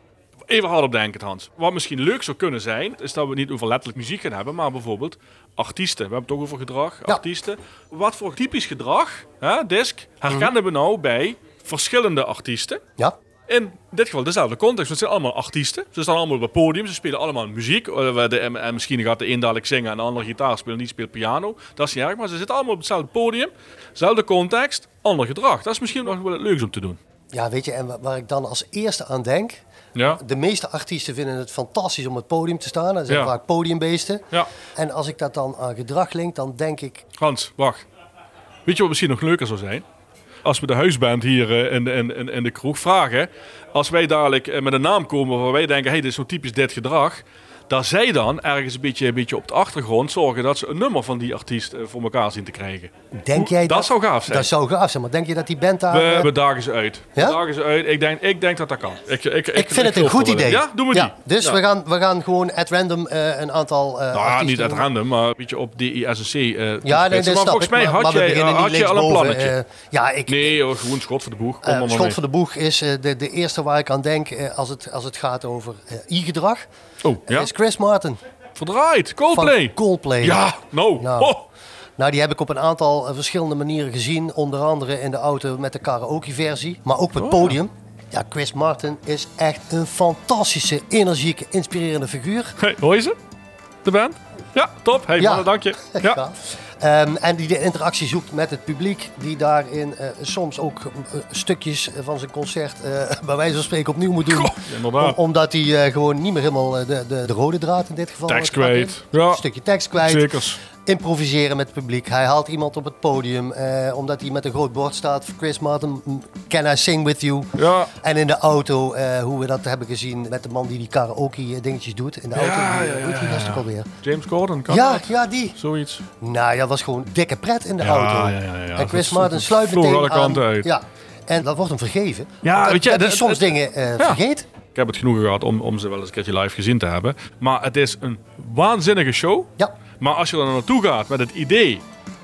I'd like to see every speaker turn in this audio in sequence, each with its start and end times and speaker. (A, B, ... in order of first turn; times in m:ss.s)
0:00.5-0:12.8 A
0:13.5-0:27.0 A
0:27.3-0:37.0 B
0:29.9-0:30.2 A
0:33.1-0:33.3 A
0:37.2-0:37.8 A
0:38.6-0:39.8 A
0:40.4-0:54.5 A
0:53.1-0:56.3 B
0:55.9-1:01.6 A
0:59.5-1:04.9 B
1:04.1-1:09.6 A
1:06.8-1:10.6 B
1:10.3-1:12.2 A
1:11.6-1:16.7 B
1:17.0-1:17.5 A
1:17.2-1:18.2 B
1:18.6-1:21.4 A
1:19.3-1:20.4 B
1:21.0-1:21.3 B
1:22.0-1:32.6 B
1:27.2-1:27.6 A
1:32.6-1:33.2 A
1:33.8-1:36.2 A
1:35.2-2:03.9 B
1:44.2-1:45.2 A
1:48.3-1:49.4 A
1:50.0-1:50.6 A
1:57.6-1:57.9 A
2:02.3-2:06.0 A
2:04.7-2:05.6 B
2:06.2-2:14.5 B
2:07.8-2:10.7 A
2:12.4-2:14.2 A
2:14.7-2:21.8 A